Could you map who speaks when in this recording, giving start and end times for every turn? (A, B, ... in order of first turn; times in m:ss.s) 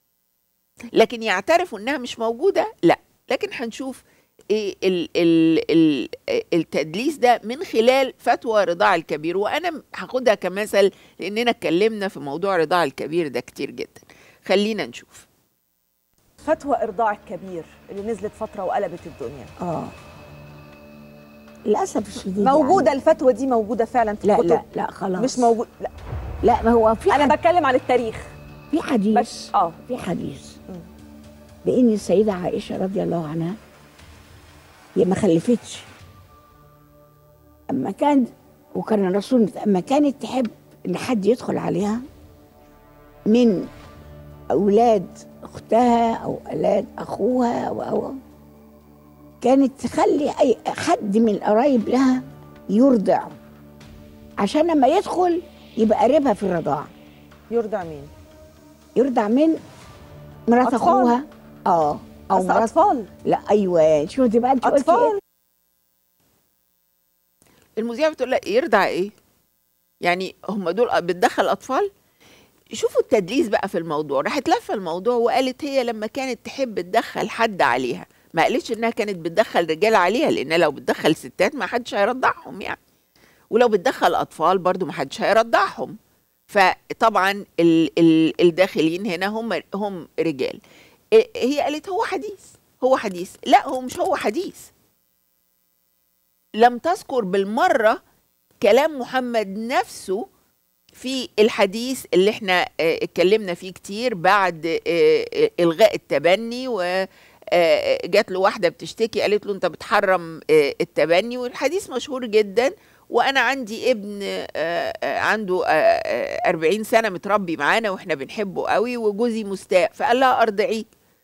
0:01.0-0:15.3 A
0:16.4-0:19.5 B
0:19.6-0:19.9 C
0:21.7-0:22.9 C
0:22.4-0:24.6 B
0:24.2-0:25.5 C
0:25.2-0:25.9 B
0:26.4-0:27.4 C
0:27.1-0:28.3 B
0:28.7-0:30.6 C
0:29.2-0:29.8 B
0:31.6-0:33.6 C
0:35.0-0:35.9 C
0:37.7-0:42.0 C
0:43.3-0:43.6 C
0:44.5-0:48.2 C
0:49.4-0:53.4 C
0:54.4-0:56.9 C
0:57.5-0:58.1 B
0:59.0-0:59.6 C
1:00.5-1:02.7 C
1:00.6-1:01.2 B
1:02.3-1:03.1 B
1:03.2-1:05.2 C
1:04.6-1:05.2 B
1:07.8-1:09.1 A
1:10.0-1:11.9 A
1:12.8-1:22.8 A
1:23.5-1:26.0 A
1:26.5-1:30.6 A
1:31.2-1:34.7 A
1:36.6-1:38.0 A
1:38.6-1:40.2 A
1:41.0-1:46.9 A
1:47.6-2:00.8 A